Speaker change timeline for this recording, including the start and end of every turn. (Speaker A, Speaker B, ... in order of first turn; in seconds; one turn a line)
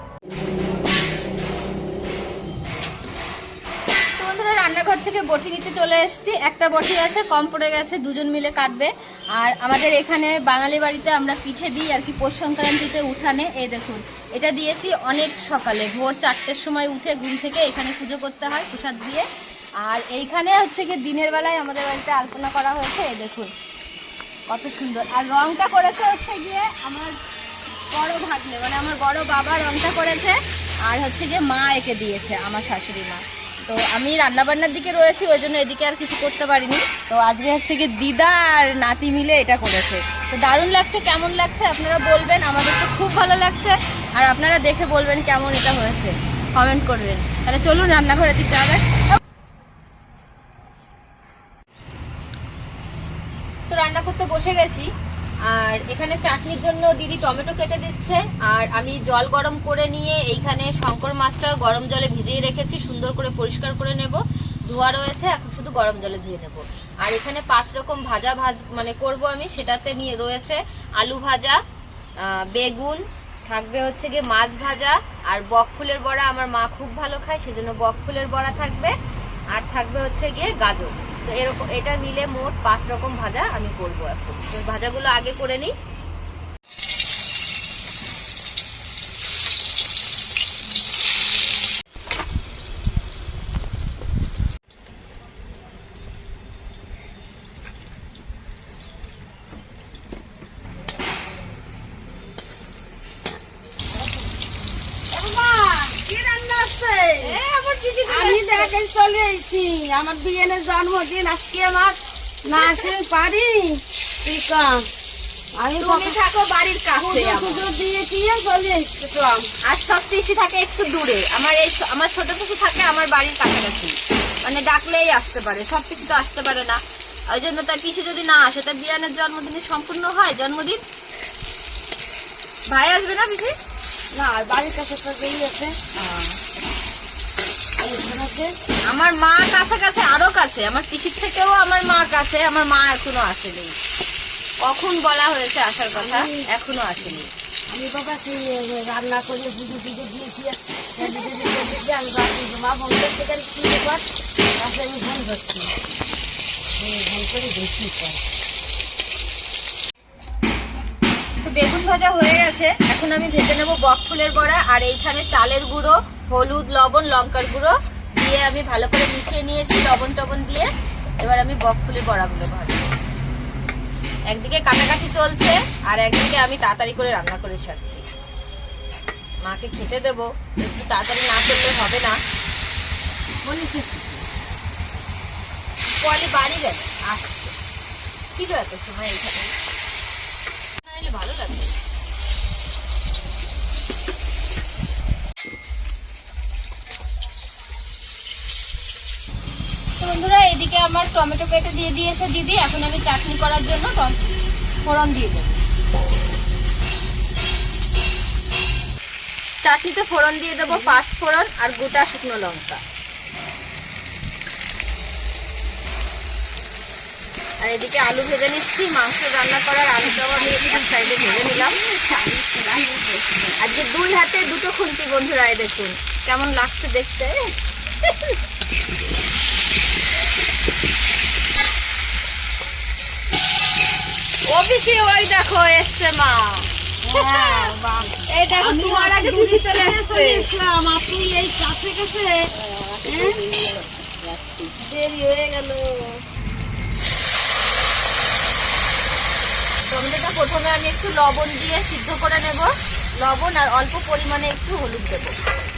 Speaker A: 4.2-19.2
Speaker A: 19.8-23.5
Speaker A: 24.5-27.1
Speaker A: 27.9-48.8
Speaker A: 53.7-54.9
Speaker A: 55.5-71.6
Speaker A: 72.2-78.9
Speaker A: 79.5-85.7
Speaker B: 105.1-107.4
Speaker A: 107.2-108.7
Speaker B: 108.1-114.9
Speaker A: 112.5-112.8
Speaker B: 115.6-116.2
Speaker A: 115.8-117.7
Speaker B: 117.0-119.5
Speaker A: 119.6-130.8
Speaker A: 132.7-133.5
Speaker B: 134.1-136.2
Speaker B: 137.8-138.5
Speaker A: 138.9-143.7
Speaker A: 144.6-147.3
Speaker B: 145.9-146.4
Speaker B: 147.7-154.0
Speaker B: 154.6-155.7
Speaker B: 156.8-158.2
Speaker A: 161.4-170.7
Speaker A: 171.2-172.9
Speaker A: 174.3-178.0
Speaker A: 179.4-182.2
Speaker B: 183.4-184.2
Speaker A: 186.0-187.5
Speaker A: 188.3-189.5
Speaker A: 190.8-191.7
Speaker A: 200.0-204.2
Speaker A: 204.8-205.6
Speaker A: 209.6-212.8
Speaker A: 217.6-221.8
Speaker B: 220.2-223.5
Speaker A: 223.6-227.5
Speaker A: 234.5-240.5
Speaker B: 237.0-244.7
Speaker A: 242.8-243.4
Speaker A: 244.8-246.2
Speaker A: 249.9-255.3